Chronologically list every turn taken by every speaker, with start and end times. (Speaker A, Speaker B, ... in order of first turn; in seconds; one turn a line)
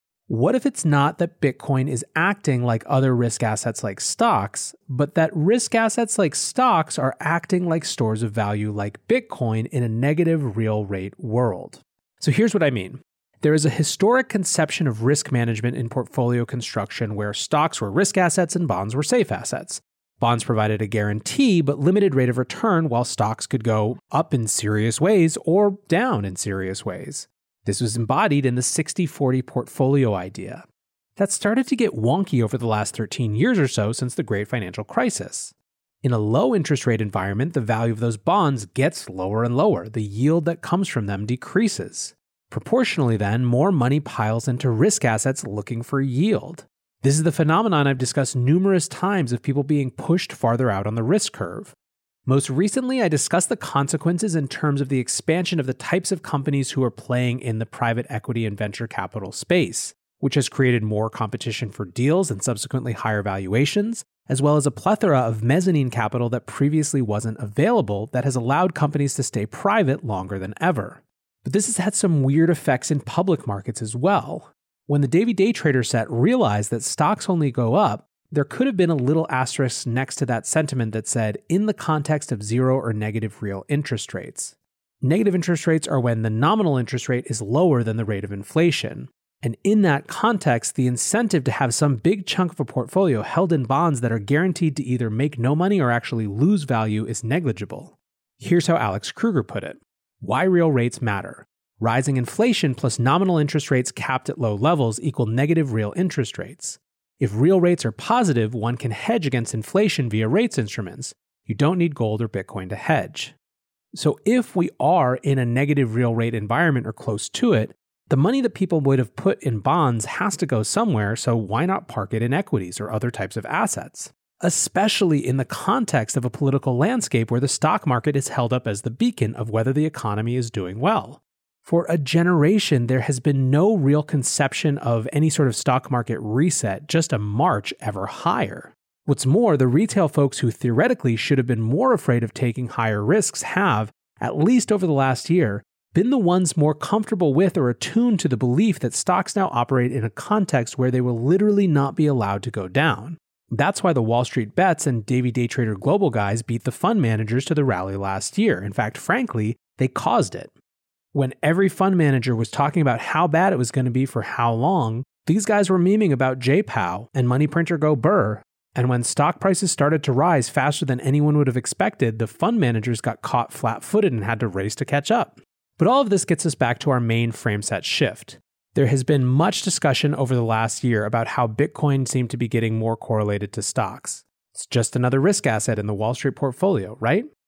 Speaker A: 0.3-30.6
Speaker A: 31.1-51.8
Speaker A: 52.2-113.4
Speaker A: 113.9-160.5
Speaker A: 161.1-187.3